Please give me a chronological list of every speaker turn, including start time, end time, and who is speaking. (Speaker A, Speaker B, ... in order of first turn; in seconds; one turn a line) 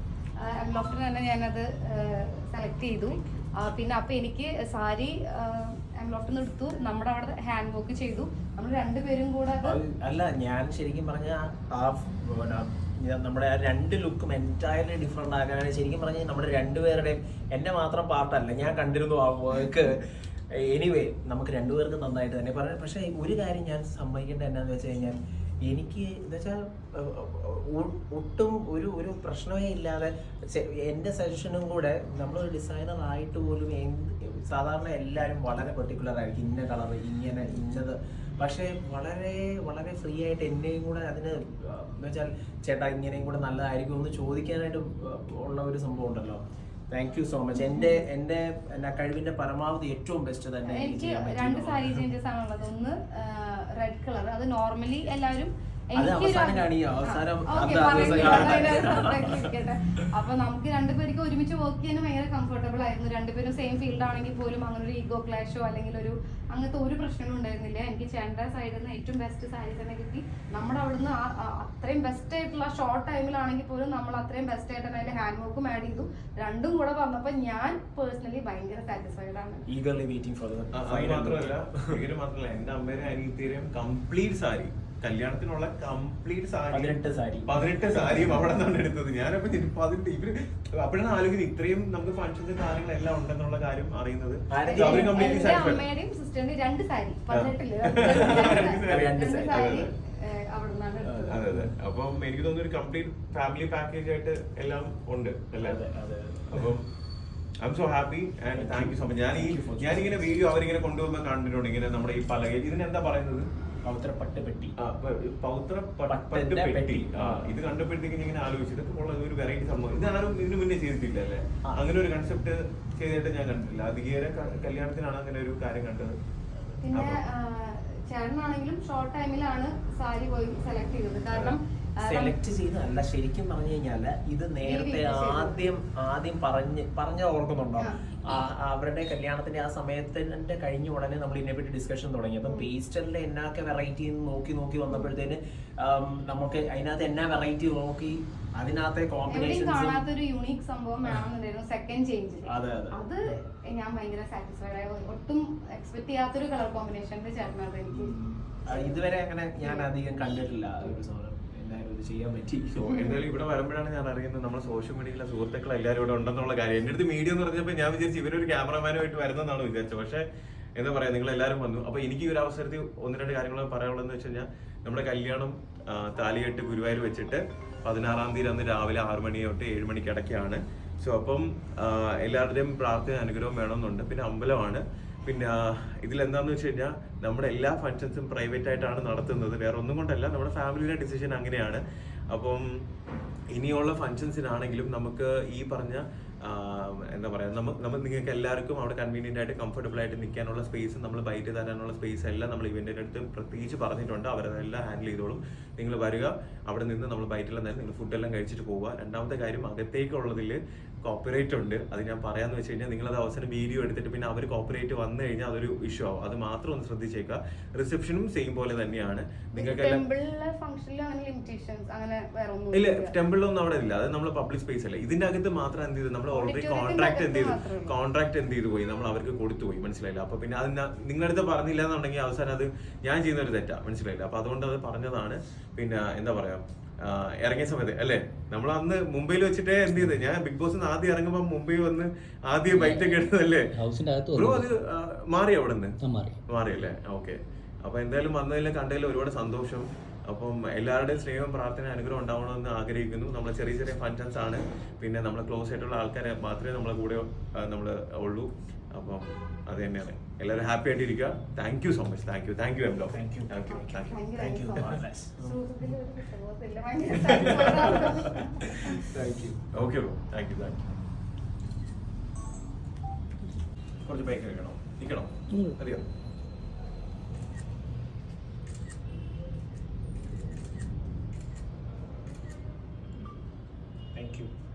Speaker A: 0.4-9.8
Speaker B: 9.6-52.0
Speaker A: 47.5-48.0
Speaker A: 50.6-79.6
Speaker B: 56.0-59.5
Speaker C: 58.0-58.6
Speaker B: 79.7-81.9
Speaker C: 80.7-95.8
Speaker B: 86.7-88.4
Speaker B: 94.5-95.6
Speaker A: 94.7-101.4
Speaker C: 97.3-99.9
Speaker B: 98.0-99.7
Speaker B: 101.0-101.7
Speaker C: 101.3-105.8
Speaker B: 105.6-106.7
Speaker C: 106.5-106.8
Speaker C: 107.6-113.5
Speaker B: 108.5-110.3
Speaker B: 113.8-114.7
Speaker C: 114.8-126.1
Speaker B: 116.1-117.5
Speaker A: 126.8-132.3
Speaker C: 126.9-127.2
Speaker C: 131.3-131.6
Speaker B: 132.0-150.0
Speaker A: 134.6-135.6
Speaker A: 149.3-158.1
Speaker B: 152.4-153.0
Speaker B: 157.9-163.0
Speaker A: 159.6-159.9
Speaker C: 162.8-170.2
Speaker A: 162.9-163.2
Speaker C: 170.8-192.6
Speaker C: 193.5-220.0
Speaker A: 219.6-223.1
Speaker C: 222.7-243.7
Speaker A: 226.3-227.9
Speaker D: 242.7-244.7
Speaker C: 244.3-246.0
Speaker D: 246.0-246.4
Speaker C: 246.5-264.2
Speaker B: 263.1-265.6
Speaker A: 263.7-269.0
Speaker B: 267.1-269.6
Speaker C: 267.3-267.8
Speaker C: 269.7-270.9
Speaker C: 274.0-276.0
Speaker D: 275.5-275.8
Speaker B: 284.1-284.5